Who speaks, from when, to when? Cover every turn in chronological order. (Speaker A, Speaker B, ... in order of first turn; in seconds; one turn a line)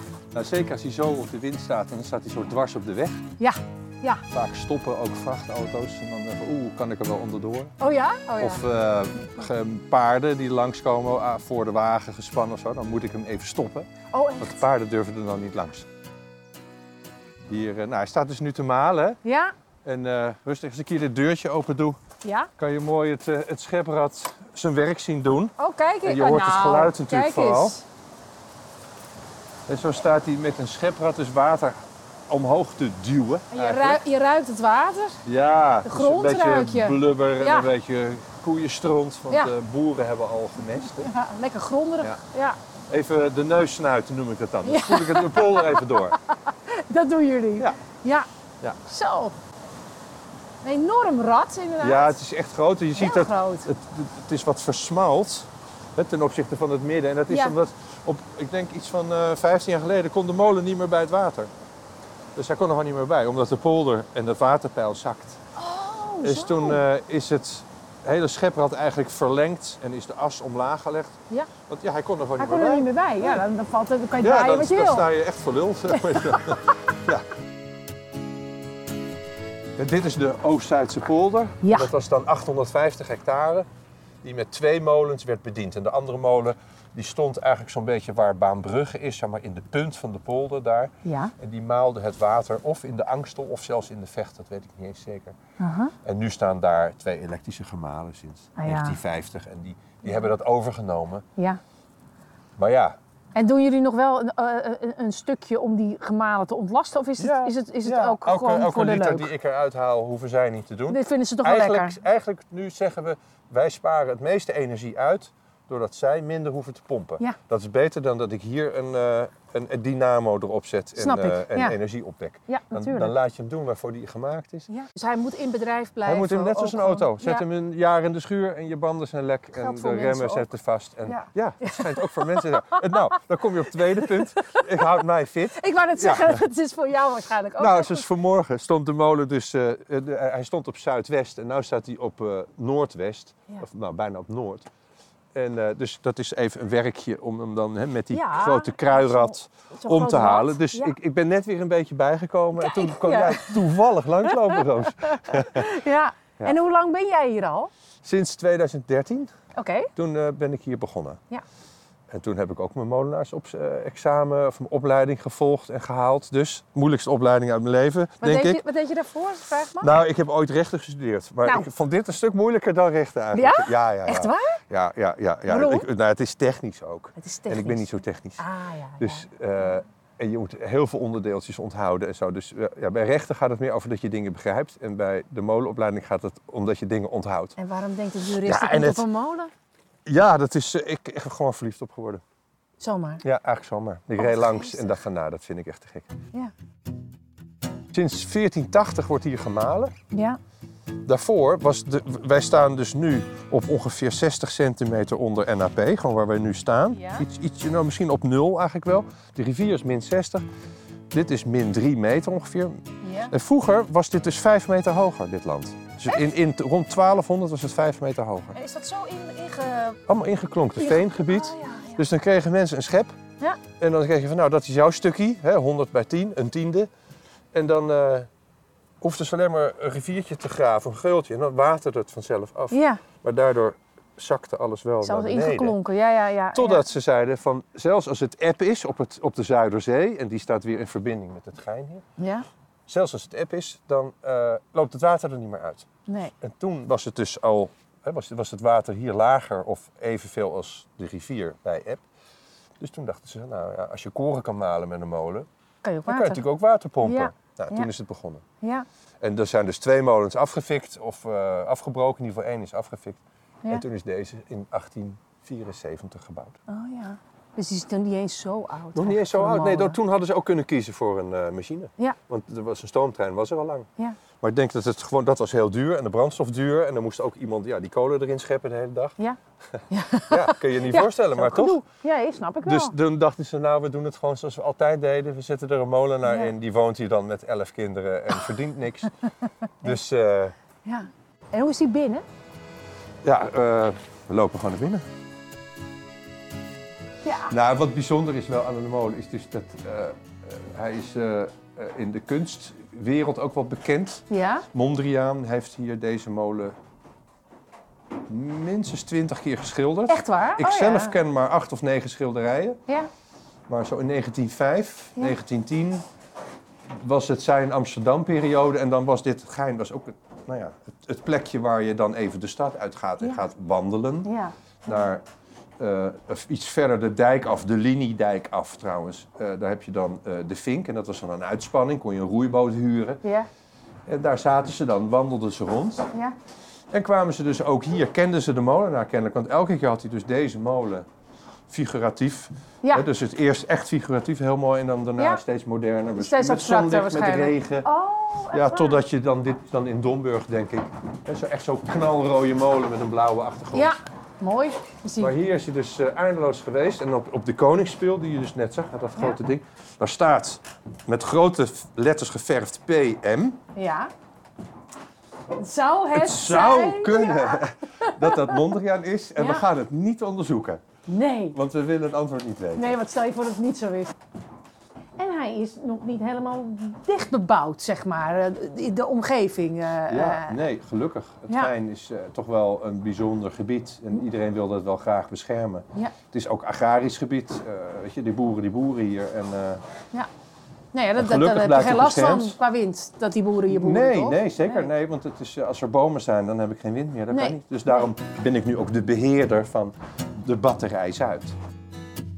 Speaker A: 0.3-3.2
Speaker B: 3.4-4.2
Speaker A: 4.3-7.7
Speaker B: 7.8-8.6
Speaker A: 8.4-13.9
Speaker B: 14.1-14.6
Speaker A: 14.4-15.8
Speaker A: 17.5-19.2
Speaker B: 19.2-19.5
Speaker A: 19.8-22.0
Speaker B: 22.2-22.5
Speaker A: 22.6-27.8
Speaker B: 25.6-27.8
Speaker A: 29.7-34.0
Speaker B: 33.5-35.2
Speaker A: 35.2-41.1
Speaker B: 35.8-37.7
Speaker B: 40.9-42.6
Speaker A: 42.9-46.2
Speaker B: 44.6-48.3
Speaker B: 48.9-49.3
Speaker B: 50.6-52.2
Speaker A: 51.8-61.5
Speaker B: 52.9-53.7
Speaker B: 57.3-57.5
Speaker A: 62.4-65.4
Speaker B: 65.5-66.8
Speaker A: 66.2-73.4
Speaker B: 72.3-75.1
Speaker A: 74.2-77.2
Speaker B: 75.9-76.6
Speaker A: 79.8-83.7
Speaker B: 81.6-81.9
Speaker A: 84.2-95.4
Speaker B: 91.0-91.3
Speaker B: 95.6-95.9
Speaker A: 96.0-101.2
Speaker B: 98.5-99.0
Speaker A: 102.6-103.0
Speaker B: 103.3-109.3
Speaker A: 107.2-124.7
Speaker B: 110.9-112.0
Speaker B: 121.0-121.8
Speaker B: 122.5-123.1
Speaker B: 124.7-127.4
Speaker A: 126.0-136.4
Speaker B: 129.5-130.5
Speaker B: 131.1-132.8
Speaker B: 134.1-134.7
Speaker B: 135.5-138.1
Speaker A: 137.6-144.7
Speaker A: 145.3-155.7
Speaker B: 148.1-150.9
Speaker B: 152.6-153.7
Speaker B: 154.3-157.7
Speaker A: 158.0-159.3
Speaker B: 159.6-159.9
Speaker A: 160.0-161.2
Speaker A: 162.1-168.6
Speaker B: 168.2-169.9
Speaker A: 169.8-178.4
Speaker B: 173.3-174.6
Speaker B: 175.5-175.9
Speaker B: 177.2-179.3
Speaker A: 179.0-187.5
Speaker B: 187.6-189.5
Speaker A: 188.3-189.1
Speaker A: 190.1-192.2
Speaker B: 192.8-193.2
Speaker A: 193.2-196.1
Speaker B: 194.2-195.0
Speaker A: 197.9-199.9
Speaker B: 200.1-200.4
Speaker A: 201.1-210.4
Speaker B: 206.9-207.2
Speaker A: 211.1-218.6
Speaker B: 213.0-213.3
Speaker B: 216.1-216.3
Speaker B: 218.5-220.0
Speaker A: 220.1-223.2
Speaker B: 220.8-222.1
Speaker A: 223.8-226.9
Speaker A: 227.5-228.3
Speaker A: 229.0-235.8
Speaker B: 232.7-233.0
Speaker B: 235.0-236.8
Speaker A: 236.5-242.0
Speaker B: 242.2-242.5
Speaker A: 242.9-245.9
Speaker B: 246.1-246.3
Speaker A: 246.4-252.0
Speaker A: 252.8-255.5
Speaker B: 255.8-256.5
Speaker A: 256.1-258.4
Speaker B: 257.0-257.9
Speaker B: 258.6-258.9
Speaker A: 259.2-266.6
Speaker B: 266.7-270.0
Speaker A: 268.9-273.9
Speaker A: 274.4-279.1
Speaker B: 279.9-282.9
Speaker A: 280.3-281.8
Speaker A: 282.6-289.1
Speaker B: 286.2-286.5
Speaker A: 289.8-290.5
Speaker B: 290.9-292.2
Speaker A: 293.2-295.0
Speaker B: 297.2-297.5
Speaker A: 297.5-306.8
Speaker B: 304.3-304.6
Speaker A: 308.3-312.8
Speaker B: 310.1-311.2
Speaker A: 313.7-316.0
Speaker A: 317.0-324.3
Speaker B: 324.2-324.9
Speaker A: 324.9-325.2
Speaker A: 325.8-333.2
Speaker B: 333.2-333.5
Speaker A: 334.1-336.1
Speaker A: 336.9-341.1
Speaker A: 341.7-347.9
Speaker B: 345.2-345.4
Speaker B: 346.2-349.0
Speaker A: 348.5-353.9
Speaker B: 353.7-355.3
Speaker A: 355.2-363.6
Speaker B: 363.8-364.1
Speaker B: 365.5-368.6
Speaker A: 366.1-370.8
Speaker B: 369.4-369.6
Speaker B: 371.1-371.6
Speaker A: 371.5-373.0
Speaker B: 372.8-374.1
Speaker B: 375.2-380.6
Speaker A: 380.1-389.8
Speaker B: 390.9-394.9
Speaker A: 391.2-392.6
Speaker A: 393.7-401.5
Speaker B: 397.3-398.0